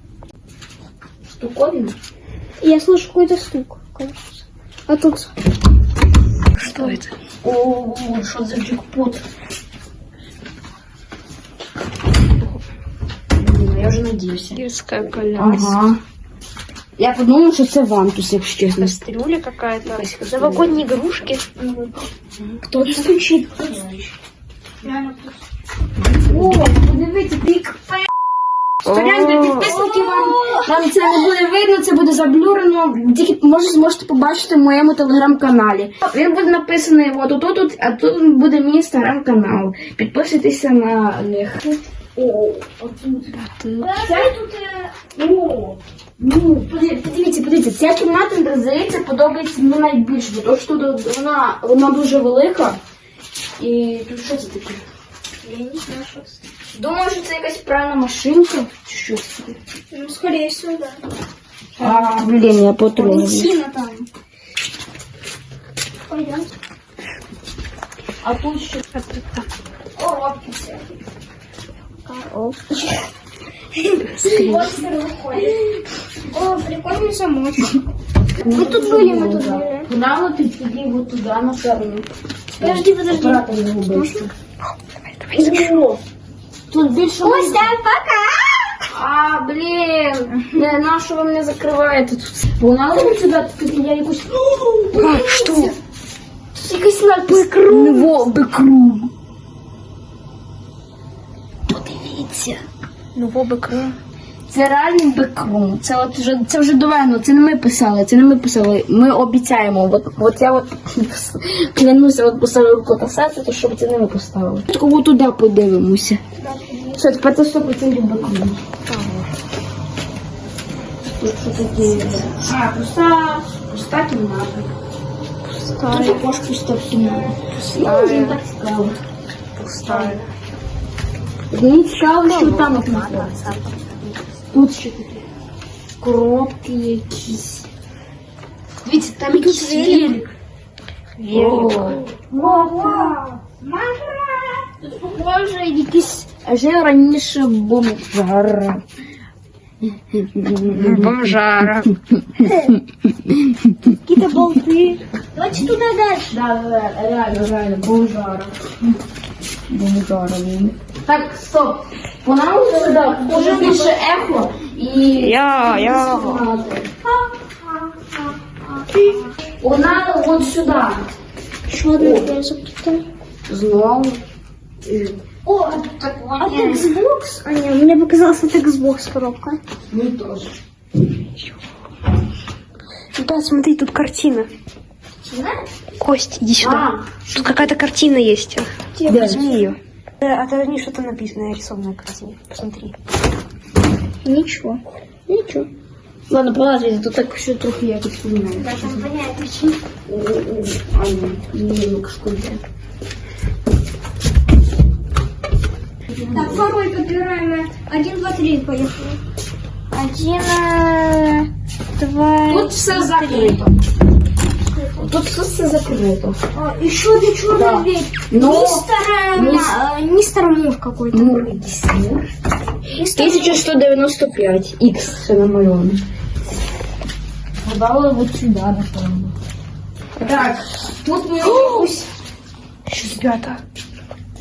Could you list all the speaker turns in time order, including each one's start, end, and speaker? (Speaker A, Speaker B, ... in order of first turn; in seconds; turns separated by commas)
Speaker A: 1.3-1.9, Speaker B: 2.6-5.3, Speaker C: 6.5-7.1, Speaker A: 6.6-9.2, Speaker A: 13.3-14.6, Speaker C: 14.6-15.9, Speaker A: 15.4-16.0, Speaker A: 17.0-18.9, Speaker C: 18.8-21.5, Speaker A: 19.9-20.8, Speaker B: 21.6-21.9, Speaker A: 22.6-24.1, Speaker B: 24.8-25.4, Speaker A: 26.2-28.1, Speaker C: 28.9-29.8, Speaker A: 28.9-44.4, Speaker B: 29.5-31.1, Speaker C: 43.4-43.9, Speaker B: 43.8-44.9, Speaker A: 45.1-52.8, Speaker A: 53.6-54.8, Speaker B: 55.4-56.4, Speaker A: 56.7-59.6, Speaker B: 59.9-61.0, Speaker B: 61.8-62.1, Speaker A: 61.8-63.5, Speaker B: 63.0-64.1, Speaker B: 66.1-66.5, Speaker A: 68.2-68.8, Speaker C: 68.9-69.5, Speaker B: 70.0-71.0, Speaker B: 72.1-73.1, Speaker B: 73.8-75.8, Speaker C: 74.1-74.8, Speaker B: 76.3-77.8, Speaker A: 78.4-82.1, Speaker B: 78.4-79.9, Speaker B: 82.6-84.3, Speaker A: 82.6-84.3, Speaker C: 85.2-85.7, Speaker A: 85.3-86.0, Speaker A: 86.7-87.8, Speaker B: 87.2-88.9, Speaker A: 88.9-95.8, Speaker C: 94.9-95.8, Speaker A: 96.5-99.1, Speaker B: 97.4-98.2, Speaker A: 101.7-102.6, Speaker C: 103.2-104.0, Speaker A: 104.5-116.2, Speaker B: 116.4-117.0, Speaker A: 116.9-118.6, Speaker C: 118.9-119.3, Speaker A: 121.2-124.7, Speaker C: 125.5-126.2, Speaker A: 125.9-129.0, Speaker B: 127.0-127.3, Speaker C: 127.4-128.4, Speaker C: 129.6-130.3, Speaker A: 129.9-130.2, Speaker A: 131.5-133.4, Speaker C: 132.1-134.1, Speaker A: 134.5-135.3, Speaker A: 136.0-137.7, Speaker A: 138.8-140.2, Speaker B: 139.3-140.2, Speaker C: 141.2-142.0, Speaker A: 141.3-143.2, Speaker B: 142.2-146.3, Speaker A: 146.4-148.8, Speaker A: 150.0-151.3, Speaker C: 150.7-151.9, Speaker B: 152.4-152.8, Speaker B: 154.0-156.3, Speaker A: 156.3-158.6, Speaker A: 159.7-166.9, Speaker B: 162.6-164.2, Speaker C: 165.2-166.4, Speaker B: 167.0-169.3, Speaker A: 169.6-171.1, Speaker B: 171.7-173.1, Speaker A: 172.0-172.3, Speaker A: 173.5-174.2, Speaker A: 174.8-176.9, Speaker B: 175.4-179.6, Speaker A: 179.9-180.6, Speaker C: 183.2-184.5, Speaker B: 185.2-185.7, Speaker C: 186.0-192.9, Speaker A: 186.6-187.7, Speaker B: 189.0-189.8, Speaker A: 189.1-189.4, Speaker B: 194.2-195.7, Speaker A: 195.3-195.6, Speaker A: 196.3-199.1, Speaker B: 198.6-199.8, Speaker A: 200.1-202.6, Speaker A: 206.1-206.7, Speaker B: 206.3-209.2, Speaker B: 209.9-213.7, Speaker A: 212.5-213.8, Speaker A: 215.0-216.4, Speaker B: 216.5-221.4, Speaker A: 217.6-219.8, Speaker A: 221.1-222.3, Speaker B: 222.9-223.6, Speaker A: 223.1-226.0, Speaker A: 227.6-229.3, Speaker A: 230.2-232.1, Speaker C: 232.9-233.6